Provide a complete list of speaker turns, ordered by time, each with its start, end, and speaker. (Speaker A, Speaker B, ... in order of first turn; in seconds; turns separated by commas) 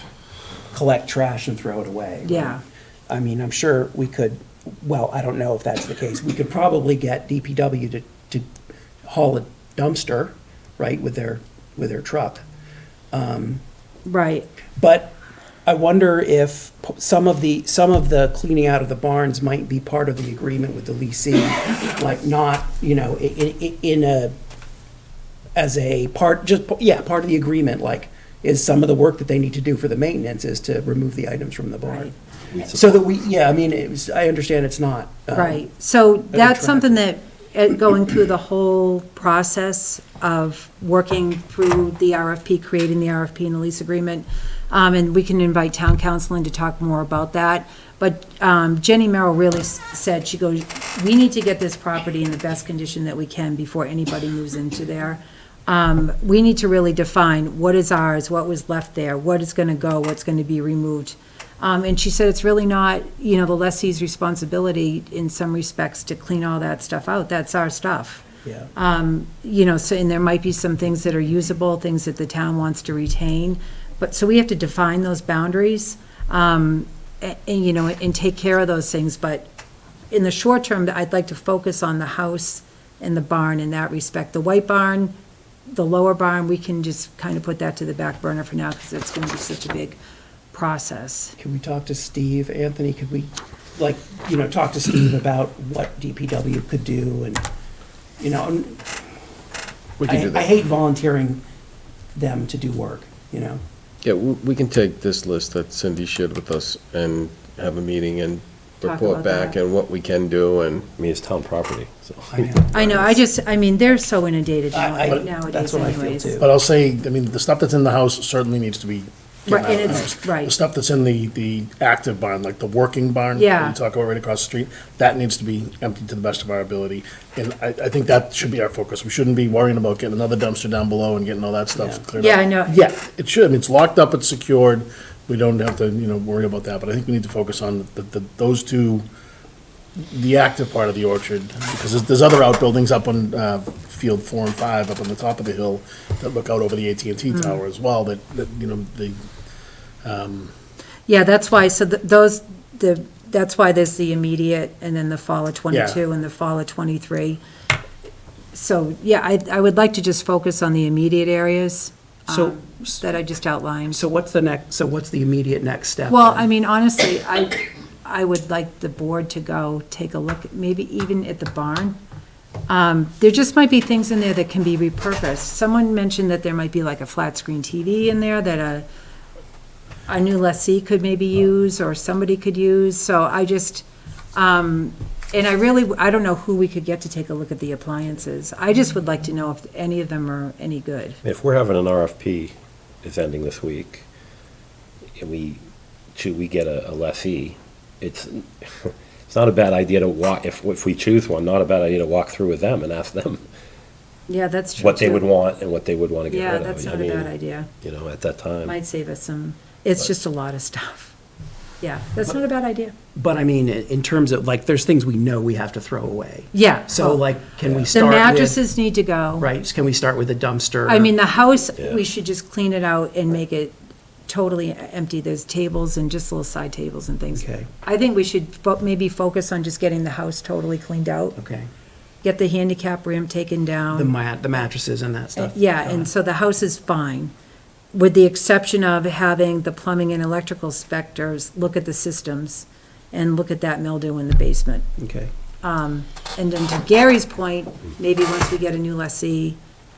Speaker A: 0.7-2.6, Speaker B: 2.2-2.6, Speaker A: 3.1-8.5, Speaker A: 9.0-12.4, Speaker A: 13.1-13.6, Speaker B: 14.1-14.5, Speaker A: 14.8-24.4, Speaker A: 25.6-32.1, Speaker B: 31.9-32.1, Speaker C: 32.5-33.0, Speaker A: 32.7-35.7, Speaker B: 35.3-79.5, Speaker A: 36.3-37.0, Speaker A: 68.4-68.7, Speaker B: 80.1-85.1, Speaker B: 85.7-90.0, Speaker B: 90.5-91.4, Speaker A: 91.4-97.5, Speaker A: 98.2-98.9, Speaker D: 100.0-100.5, Speaker A: 100.0-101.4, Speaker A: 102.1-103.6, Speaker D: 104.0-110.9, Speaker B: 108.8-109.6, Speaker C: 110.9-112.6, Speaker A: 112.3-113.2, Speaker B: 112.7-116.4, Speaker A: 114.7-116.5, Speaker E: 116.4-139.1, Speaker B: 119.5-120.5, Speaker B: 123.3-123.8, Speaker B: 132.2-132.8, Speaker E: 140.1-149.2, Speaker B: 147.3-147.6, Speaker E: 150.0-150.5, Speaker B: 151.1-157.4, Speaker E: 155.7-156.0, Speaker B: 158.5-164.0, Speaker A: 162.3-163.0, Speaker A: 163.9-166.5, Speaker B: 166.1-172.0, Speaker B: 172.7-178.9, Speaker B: 180.1-191.2, Speaker C: 191.2-194.1, Speaker C: 195.2-195.6, Speaker C: 196.2-203.4, Speaker B: 204.3-205.3, Speaker C: 204.8-208.8, Speaker B: 206.3-207.7, Speaker B: 208.6-211.1, Speaker B: 211.8-212.9, Speaker A: 213.2-218.6, Speaker B: 216.5-217.3, Speaker B: 217.9-219.5, Speaker A: 219.4-221.1, Speaker B: 220.9-223.8, Speaker C: 221.8-222.0, Speaker B: 224.3-231.4, Speaker A: 227.3-227.7, Speaker A: 231.4-231.7, Speaker B: 232.2-234.1, Speaker A: 233.9-236.1, Speaker B: 235.4-237.3, Speaker B: 237.9-244.8, Speaker A: 245.0-245.3, Speaker B: 245.6-249.6